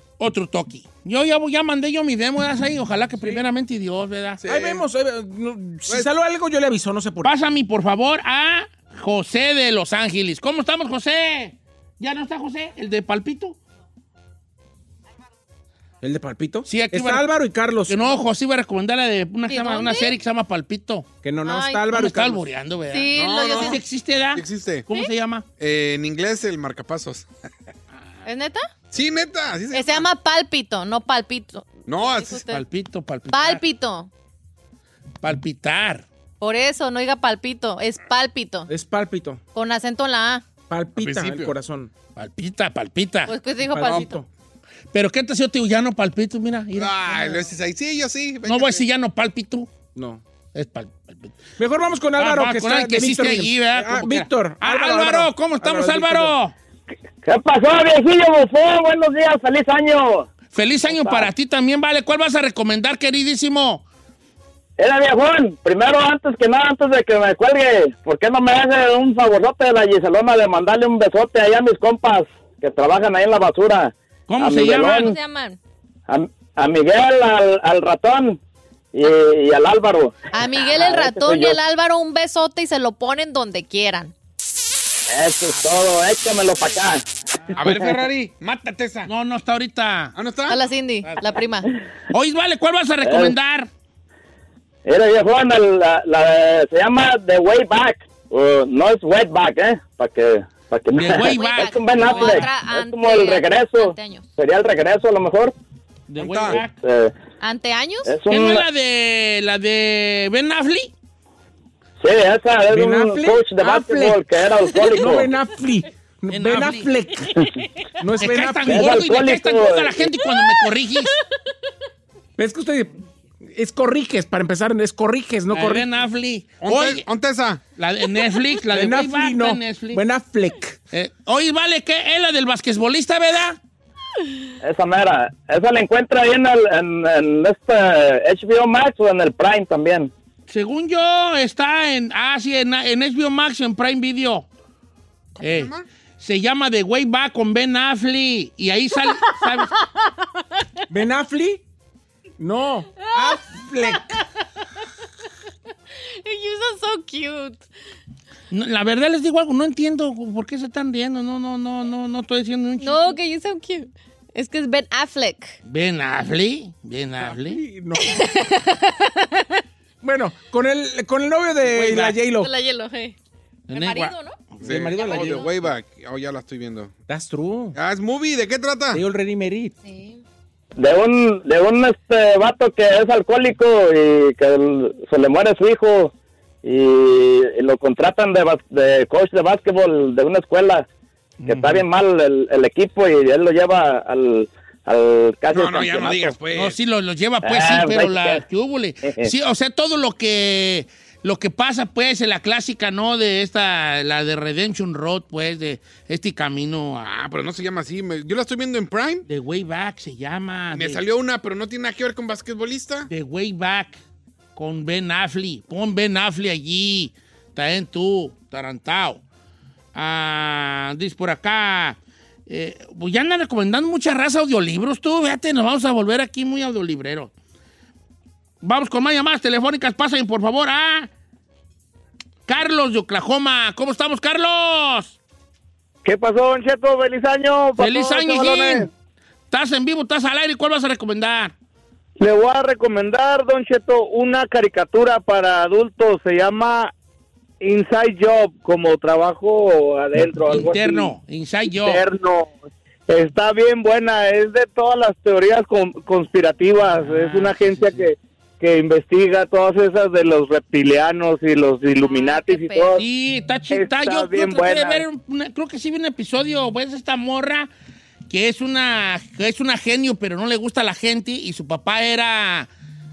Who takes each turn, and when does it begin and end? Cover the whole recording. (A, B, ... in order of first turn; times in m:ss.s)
0:00.2-0:04.4 A
0:04.4-0:04.8 B
0:04.4-0:07.3 C
0:07.2-0:13.6 A
0:16.0-0:18.2 C
0:16.6-0:17.3 A
0:17.8-0:21.1 A
0:19.5-0:20.1 D
0:21.2-0:22.4 C
0:21.4-0:21.8 D
0:21.9-0:25.4 A
0:22.9-0:23.8 D
0:23.1-0:23.8 B
0:24.3-0:24.9 B
0:25.6-0:27.3 B
0:28.2-0:28.7 D
0:28.9-0:30.1 B
0:29.7-0:32.6 D
0:31.9-0:32.5 B
0:32.5-0:33.6 A
0:33.3-0:34.1 D
0:35.2-0:36.0 A
0:36.4-0:38.7 D
0:38.7-0:39.4 C
0:39.5-0:40.4 D
0:40.7-0:41.9 C
0:41.0-0:41.5 B
0:42.2-0:43.3 A
0:43.2-0:44.2 D
0:43.7-0:44.2 C
0:43.8-0:44.1 B
0:44.9-0:47.5 A
0:46.7-0:48.8 B
0:48.4-0:49.7 A
0:49.9-0:50.2 C
0:50.5-0:51.3 A
0:51.6-0:56.3 C
0:52.2-0:56.5 A
0:57.2-1:00.3 E
1:00.5-1:03.8 A
1:00.9-1:01.3 E
1:04.8-1:15.1 E
1:14.3-1:15.1 A
1:14.8-1:15.6 D
1:16.1-1:18.4 E
1:18.9-1:20.2 E
1:20.3-1:24.1 D
1:20.7-1:21.6 E
1:25.1-1:27.0 E
1:27.6-1:29.1 B
1:29.1-1:30.1 A
1:30.1-1:30.6 B
1:30.5-1:31.7 D
1:31.0-1:31.3 A
1:32.1-1:33.7 A
1:33.0-1:33.3 E
1:34.8-1:45.5 E
1:40.9-1:42.5 A
1:41.2-1:44.2 D
1:46.1-1:46.8 A
1:46.2-1:46.6 B
1:46.8-1:47.1 E
1:47.4-1:48.2 D
1:48.0-1:48.6 E
1:48.3-1:50.9 A
1:52.0-1:55.3 E
1:52.7-1:54.2 C
1:54.9-1:57.4 C
1:56.3-1:56.9 A
1:58.0-1:59.0 C
1:58.2-2:01.2 A
1:58.6-2:00.2 E
2:02.4-2:05.8 C
2:05.5-2:07.0 A
2:06.6-2:07.6 B
2:07.8-2:10.0 A
2:08.7-2:10.8 C
2:10.9-2:13.6 A
2:14.6-2:20.1 E
2:20.5-2:24.5 A
2:25.4-2:25.8 B
2:25.4-2:29.7 A
2:30.9-2:31.6 C
2:32.4-2:34.2 C
2:33.0-2:33.4 D
2:36.0-2:37.6 D
2:38.5-2:43.2 A
2:42.8-2:45.6 D
2:45.6-2:47.6 A
2:47.2-2:48.3 C
2:48.0-2:49.6 D
2:50.0-2:52.5 C
2:51.7-2:52.1 A
2:52.3-2:53.2 D
2:53.7-2:54.6 A
2:53.7-2:55.5 D
2:54.6-2:55.6 C
2:54.6-2:56.9 B
2:57.1-2:57.8 C
2:57.7-2:59.0 B
2:58.9-2:59.8 C
2:59.8-3:00.2 D
3:00.8-3:06.1 E
3:06.6-3:10.9 E
3:11.4-3:11.8 A
3:11.4-3:16.4 E
3:15.5-3:16.8 B
3:16.5-3:27.1 A
3:17.4-3:18.4 E
3:19.0-3:19.3 E
3:27.0-3:29.2 B
3:29.2-3:31.0 A
3:30.7-3:33.1 B
3:33.1-3:34.0 A
3:34.5-3:39.2 A
3:39.9-3:47.3 A
3:48.6-3:51.1 A
3:52.5-3:55.2 A
3:56.0-3:58.9 F
3:57.8-3:58.9 A
3:59.5-4:01.5 A
4:02.2-4:06.9 F
4:07.6-4:11.0 F
4:10.4-4:12.0 A
4:11.8-4:12.5 F
4:13.1-4:23.0 F
4:17.0-4:18.0 A
4:22.0-4:23.0 D
4:23.0-4:27.7 A
4:23.7-4:25.0 F
4:28.3-4:32.7 A